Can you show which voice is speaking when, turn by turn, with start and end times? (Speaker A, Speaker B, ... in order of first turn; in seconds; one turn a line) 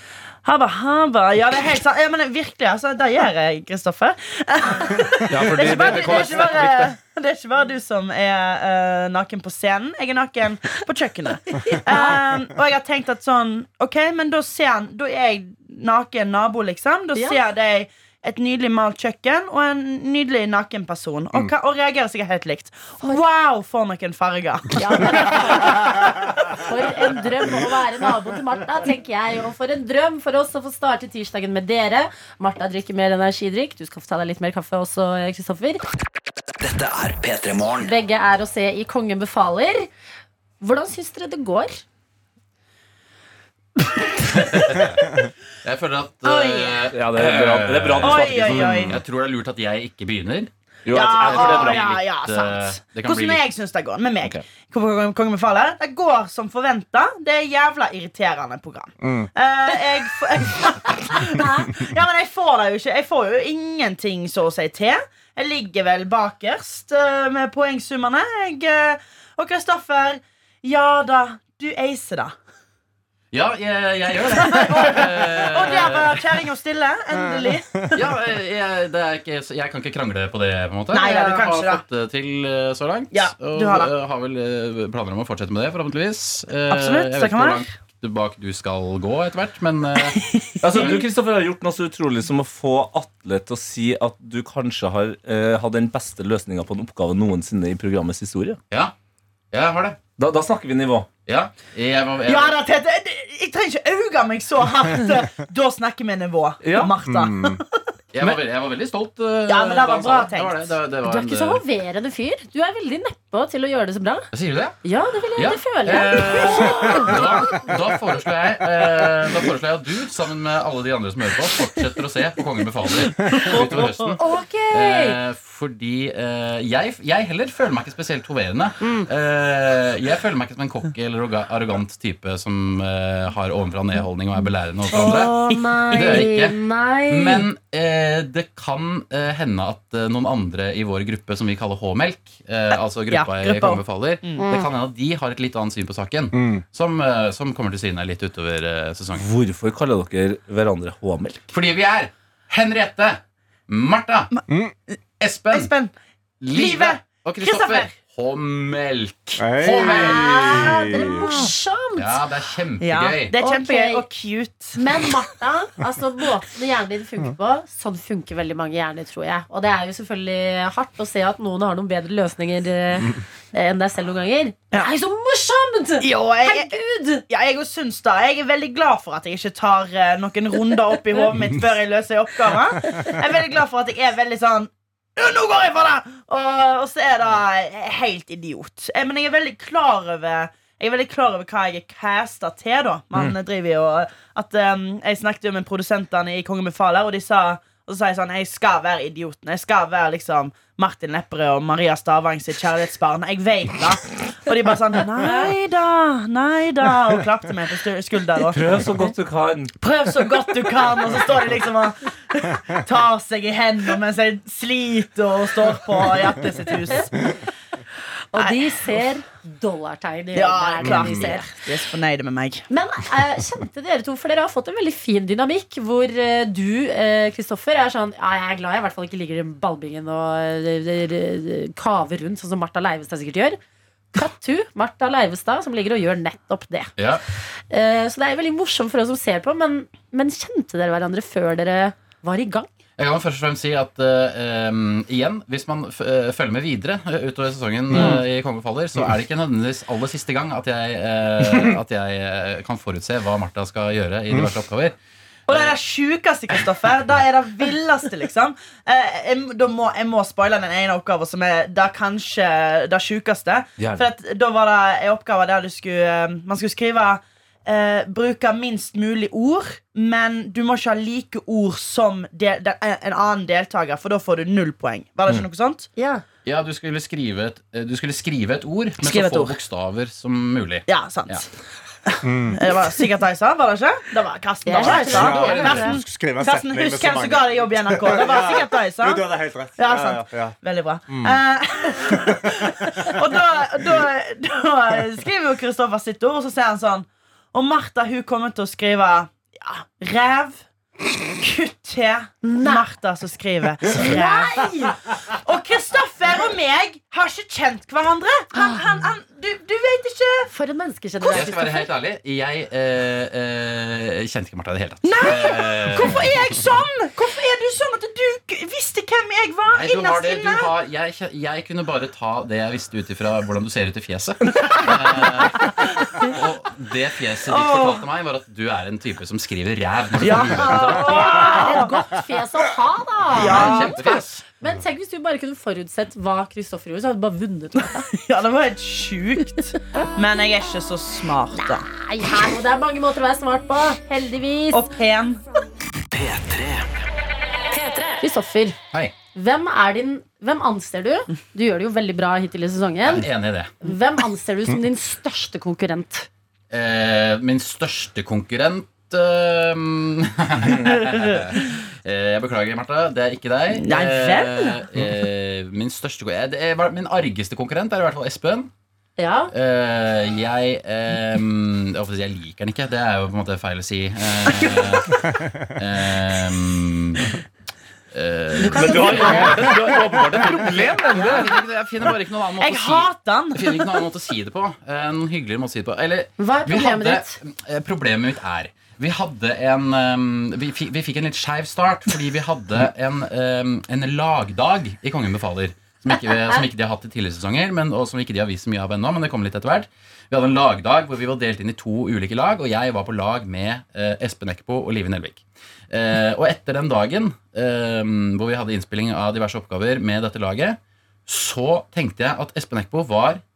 Speaker A: 0.4-25.4
Speaker B: 5.3-6.9
Speaker C: 11.6-12.2
Speaker C: 24.7-35.8
Speaker D: 36.6-37.9
Speaker C: 37.8-39.9
Speaker C: 40.6-41.8
Speaker E: 44.3-53.4
Speaker A: 46.2-46.9
Speaker B: 46.9-49.0
Speaker A: 48.0-49.0
Speaker B: 50.8-51.9
Speaker A: 50.9-72.3
Speaker F: 59.0-59.3
Speaker E: 73.3-76.2
Speaker A: 74.4-78.0
Speaker E: 77.9-91.0
Speaker A: 80.9-81.8
Speaker A: 83.1-83.9
Speaker A: 86.7-87.7
Speaker A: 90.2-91.0
Speaker B: 90.6-98.6
Speaker E: 99.5-100.0
Speaker B: 100.2-101.1
Speaker E: 101.2-102.6
Speaker A: 102.2-107.5
Speaker B: 106.6-106.9
Speaker F: 107.0-107.6
Speaker E: 108.1-111.6
Speaker A: 109.5-110.7
Speaker C: 111.0-114.3
Speaker E: 114.3-114.8
Speaker C: 114.8-117.1
Speaker E: 115.3-135.3
Speaker A: 123.3-124.1
Speaker C: 124.2-125.2
Speaker C: 128.8-129.1
Speaker C: 134.9-137.4
Speaker A: 134.9-136.2
Speaker E: 135.9-149.2
Speaker A: 143.1-144.5
Speaker C: 144.4-144.7
Speaker F: 146.3-146.6
Speaker B: 149.1-151.4
Speaker E: 151.5-154.3
Speaker F: 154.5-154.7
Speaker E: 155.2-155.7
Speaker A: 155.5-155.9
Speaker E: 156.4-160.7
Speaker A: 156.5-158.0
Speaker F: 159.4-161.3
Speaker C: 159.7-162.1
Speaker A: 161.1-161.5
Speaker E: 161.9-163.3
Speaker A: 162.8-164.8
Speaker C: 163.4-164.0
Speaker C: 164.7-177.2
Speaker A: 176.0-208.6
Speaker B: 208.5-209.7
Speaker A: 209.8-217.3
Speaker C: 218.3-221.5
Speaker A: 218.3-219.0
Speaker A: 220.3-222.6
Speaker C: 222.7-233.6
Speaker C: 234.1-236.9
Speaker E: 237.0-237.2
Speaker C: 237.7-242.7
Speaker E: 243.0-254.9
Speaker A: 255.5-275.9
Speaker E: 255.5-255.7
Speaker B: 263.8-264.1
Speaker C: 275.9-276.2
Speaker E: 276.4-281.4
Speaker A: 279.0-279.6
Speaker A: 280.9-281.4
Speaker A: 282.1-289.2
Speaker F: 282.2-282.6
Speaker C: 284.6-285.9
Speaker F: 284.8-290.5
Speaker A: 289.8-300.6
Speaker F: 291.1-291.4
Speaker F: 292.0-293.2
Speaker A: 301.3-304.7
Speaker C: 302.4-302.8
Speaker C: 303.9-305.0
Speaker A: 305.3-310.5
Speaker C: 308.5-308.8
Speaker C: 310.5-311.9
Speaker E: 311.3-316.3
Speaker A: 315.0-320.7
Speaker E: 319.7-331.6
Speaker A: 327.4-328.0
Speaker A: 330.2-331.9
Speaker C: 330.5-338.1
Speaker A: 333.4-334.2
Speaker E: 333.4-334.4
Speaker A: 338.1-341.9
Speaker C: 341.9-344.8
Speaker A: 344.7-345.4
Speaker D: 346.1-346.8
Speaker D: 347.7-348.1
Speaker C: 348.2-348.8
Speaker C: 349.3-353.2
Speaker E: 353.0-353.7
Speaker C: 353.8-356.3
Speaker E: 356.7-368.7
Speaker A: 363.7-364.8
Speaker C: 369.2-369.5
Speaker E: 369.5-377.3
Speaker E: 378.1-379.8
Speaker C: 378.6-379.7
Speaker B: 378.7-381.5
Speaker E: 380.6-413.4
Speaker A: 382.6-384.0
Speaker C: 386.4-387.4
Speaker C: 396.1-396.6